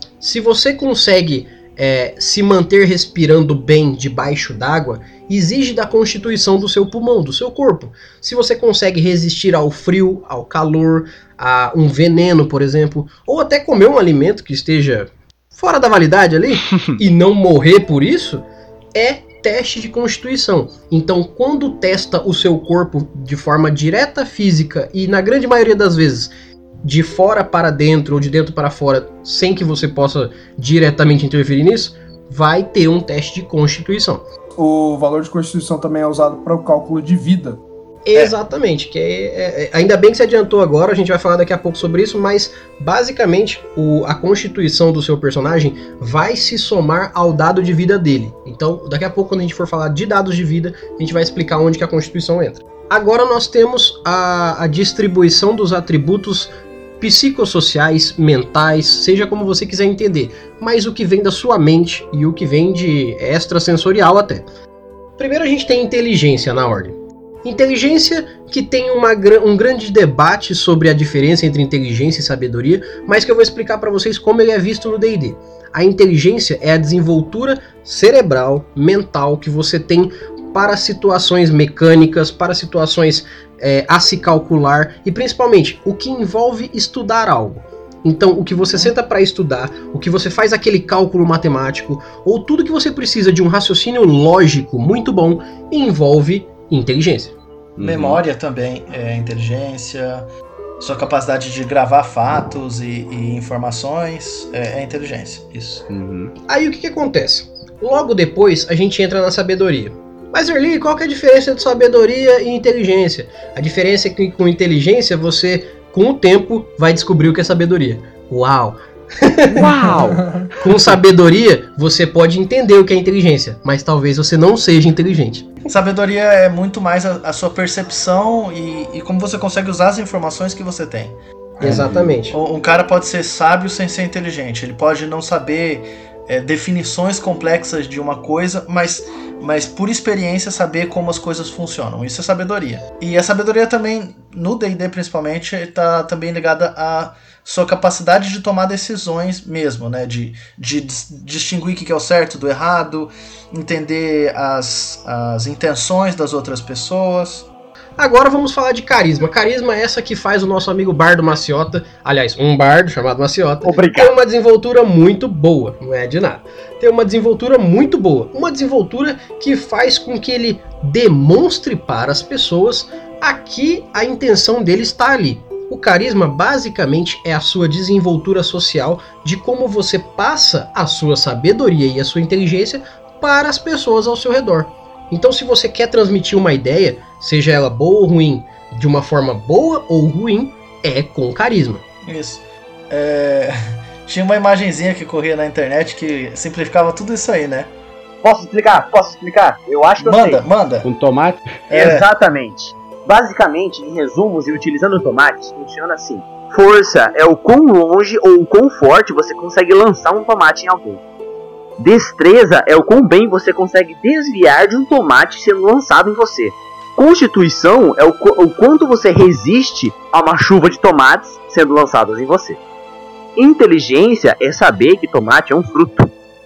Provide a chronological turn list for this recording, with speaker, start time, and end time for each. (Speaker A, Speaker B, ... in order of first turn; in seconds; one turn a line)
Speaker A: 0.2-18.4
Speaker A: 18.9-26.3
Speaker A: 26.8-34.2
Speaker B: 34.6-37.6
Speaker A: 38.1-64.4
Speaker A: 65.2-97.3
Speaker C: 97.8-98.2
Speaker D: 97.8-100.3
Speaker D: 100.8-105.8
Speaker C: 105.9-106.3
Speaker A: 106.5-119.7
Speaker C: 119.6-120.2
Speaker B: 119.6-120.5
Speaker A: 120.6-125.5
Speaker D: 125.7-157.5
Speaker A: 131.6-132.4
Speaker C: 131.6-132.2
Speaker A: 158.0-191.8
Speaker E: 163.6-164.1
Speaker D: 192.1-197.7
Speaker E: 198.2-200.4
Speaker D: 200.0-200.9
Speaker C: 200.8-201.4
Speaker D: 201.7-202.1
Speaker E: 201.7-211.0
Speaker E: 211.8-222.6
Speaker E: 223.4-226.1